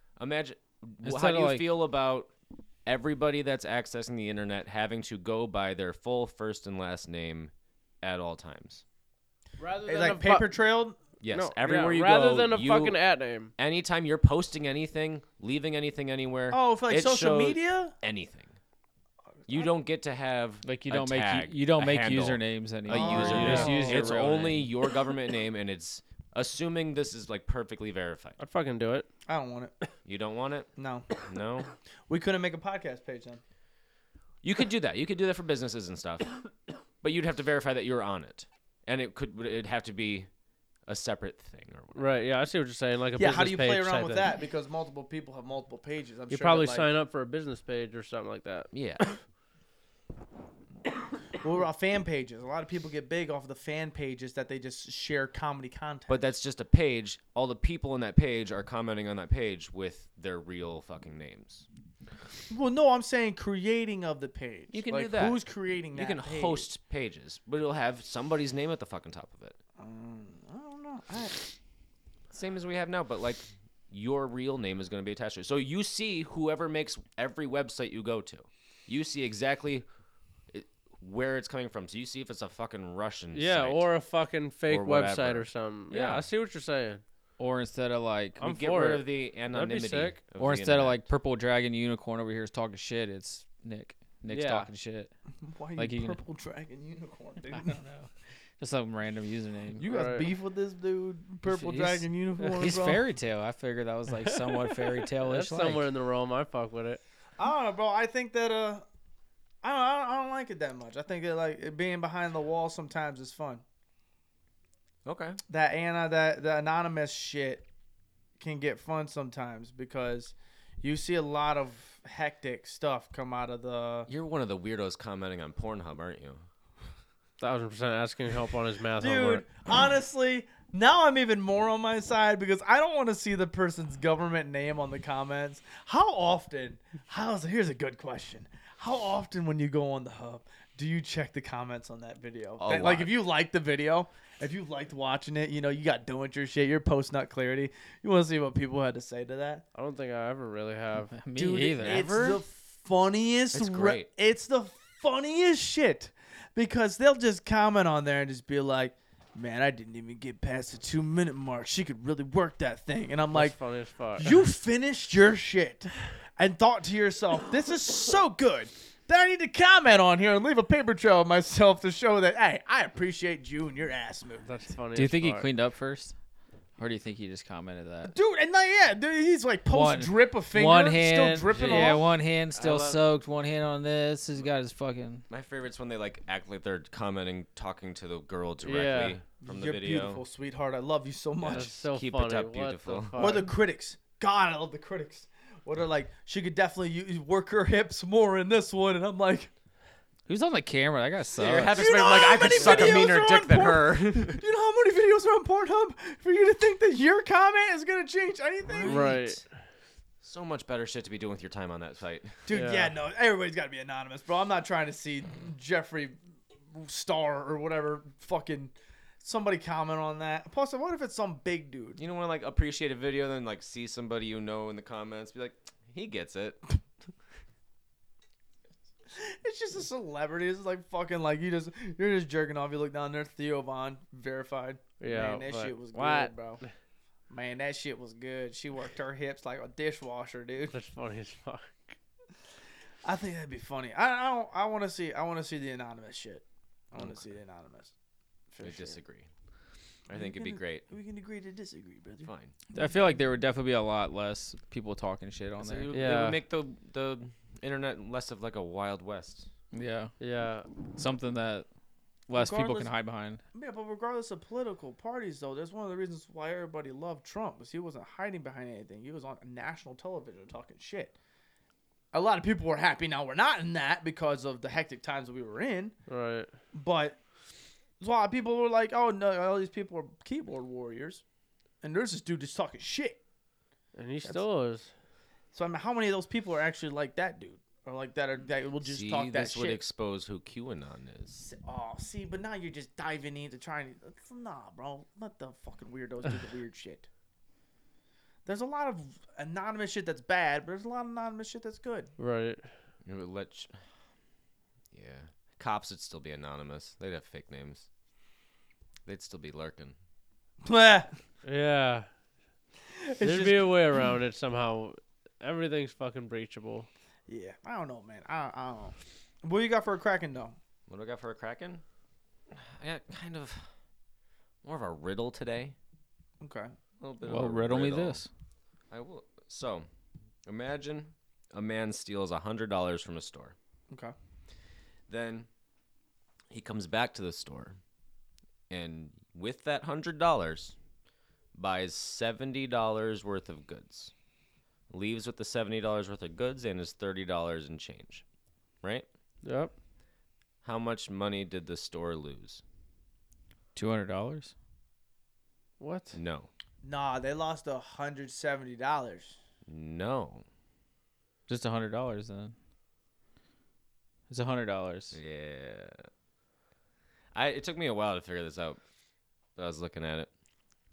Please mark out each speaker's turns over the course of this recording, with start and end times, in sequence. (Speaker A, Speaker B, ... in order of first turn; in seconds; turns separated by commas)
Speaker A: 0.2-2.3, Speaker B: 1.0-1.6, Speaker A: 2.9-8.8, Speaker C: 9.6-10.5, Speaker D: 9.8-11.0, Speaker A: 11.2-13.0, Speaker C: 11.3-13.5, Speaker A: 13.6-18.6, Speaker D: 16.5-17.9, Speaker A: 19.5-28.4, Speaker B: 20.6-24.7, Speaker D: 22.9-24.1, Speaker C: 23.4-23.8, Speaker C: 28.4-29.1, Speaker D: 29.3-29.7, Speaker A: 30.0-31.7, Speaker D: 30.8-31.1, Speaker D: 32.1-33.4, Speaker A: 34.4-36.4, Speaker A: 37.0-40.3, Speaker A: 40.9-42.1, Speaker C: 41.9-44.3, Speaker D: 43.2-46.9, Speaker C: 46.3-48.7, Speaker A: 48.7-49.2, Speaker D: 51.4-56.2, Speaker A: 56.1-61.7, Speaker D: 62.5-66.7, Speaker A: 64.7-69.6, Speaker D: 69.8-71.4, Speaker A: 72.3-79.8, Speaker A: 80.5-83.9, Speaker C: 83.3-87.0, Speaker A: 84.7-86.2, Speaker B: 87.4-88.4, Speaker C: 88.4-90.2, Speaker A: 88.4-91.0, Speaker B: 90.4-95.1, Speaker C: 94.3-94.7, Speaker D: 95.4-98.0, Speaker B: 95.8-96.2, Speaker B: 97.7-98.1, Speaker B: 98.6-99.8, Speaker D: 99.8-103.0, Speaker C: 99.9-100.3, Speaker B: 101.5-105.9, Speaker C: 104.3-107.0, Speaker D: 107.4-108.8, Speaker D: 109.6-113.6, Speaker A: 115.0-115.4, Speaker D: 115.5-117.6, Speaker D: 118.4-124.1, Speaker A: 124.1-126.4, Speaker C: 127.4-129.4, Speaker D: 129.0-149.6, Speaker A: 142.6-143.1, Speaker C: 149.7-151.2, Speaker B: 151.1-152.1, Speaker D: 151.3-163.6, Speaker A: 151.8-152.4, Speaker A: 153.5-154.1, Speaker C: 163.3-164.4, Speaker D: 164.2-174.4, Speaker C: 174.4-175.5, Speaker B: 174.9-176.1, Speaker B: 176.8-178.1, Speaker D: 178.1-182.1, Speaker B: 179.7-185.2, Speaker C: 181.6-181.9, Speaker A: 182.5-183.0, Speaker A: 185.3-190.2, Speaker C: 188.6-189.2, Speaker D: 189.4-191.7, Speaker A: 191.4-193.4, Speaker C: 191.5-193.5, Speaker D: 193.2-199.5, Speaker B: 200.2-201.8, Speaker A: 201.4-204.4, Speaker D: 201.7-209.2, Speaker C: 202.5-203.0, Speaker A: 208.7-209.4, Speaker C: 208.8-209.4, Speaker A: 210.2-212.4, Speaker D: 212.4-216.2, Speaker C: 212.5-212.9, Speaker D: 216.7-222.0, Speaker A: 222.0-226.6, Speaker D: 229.1-236.6, Speaker C: 235.0-236.7, Speaker D: 237.3-240.8, Speaker C: 240.7-241.9, Speaker D: 243.0-247.9, Speaker D: 248.5-249.0, Speaker A: 248.6-249.3, Speaker A: 250.1-250.8, Speaker D: 250.1-252.9, Speaker A: 252.2-252.5, Speaker B: 252.7-255.9, Speaker A: 255.6-259.5, Speaker C: 255.9-256.4, Speaker B: 259.7-260.1, Speaker C: 260.2-260.7, Speaker B: 260.9-261.7, Speaker B: 262.3-263.4, Speaker D: 262.3-262.9, Speaker D: 263.5-271.1, Speaker D: 272.1-275.9, Speaker C: 276.1-276.5, Speaker D: 276.7-277.2, Speaker D: 278.0-281.2, Speaker D: 281.8-283.2, Speaker C: 283.9-284.9, Speaker D: 285.5-289.8, Speaker A: 288.8-291.4, Speaker D: 291.4-297.1, Speaker D: 298.4-302.1, Speaker C: 302.2-302.7, Speaker A: 303.0-303.8, Speaker A: 304.9-307.9, Speaker A: 309.1-309.9, Speaker D: 310.6-311.1, Speaker C: 311.4-312.1, Speaker D: 312.9-313.7, Speaker C: 313.2-316.9, Speaker D: 317.3-320.6, Speaker A: 320.9-321.8, Speaker A: 322.5-323.7, Speaker A: 324.6-325.8, Speaker D: 326.4-326.7, Speaker A: 327.0-328.2, Speaker B: 327.2-328.3, Speaker A: 328.9-329.9, Speaker A: 330.4-333.5, Speaker A: 335.1-335.5, Speaker A: 336.5-337.8, Speaker A: 338.7-340.8, Speaker A: 341.5-344.1, Speaker A: 344.9-348.2, Speaker C: 349.4-349.7, Speaker A: 350.6-352.6, Speaker B: 353.7-354.5, Speaker C: 355.8-356.2, Speaker A: 356.1-356.5, Speaker D: 356.8-359.4, Speaker A: 359.6-360.4, Speaker B: 361.5-362.5, Speaker B: 364.3-365.2, Speaker A: 365.1-366.1, Speaker A: 367.3-368.8, Speaker A: 369.6-370.3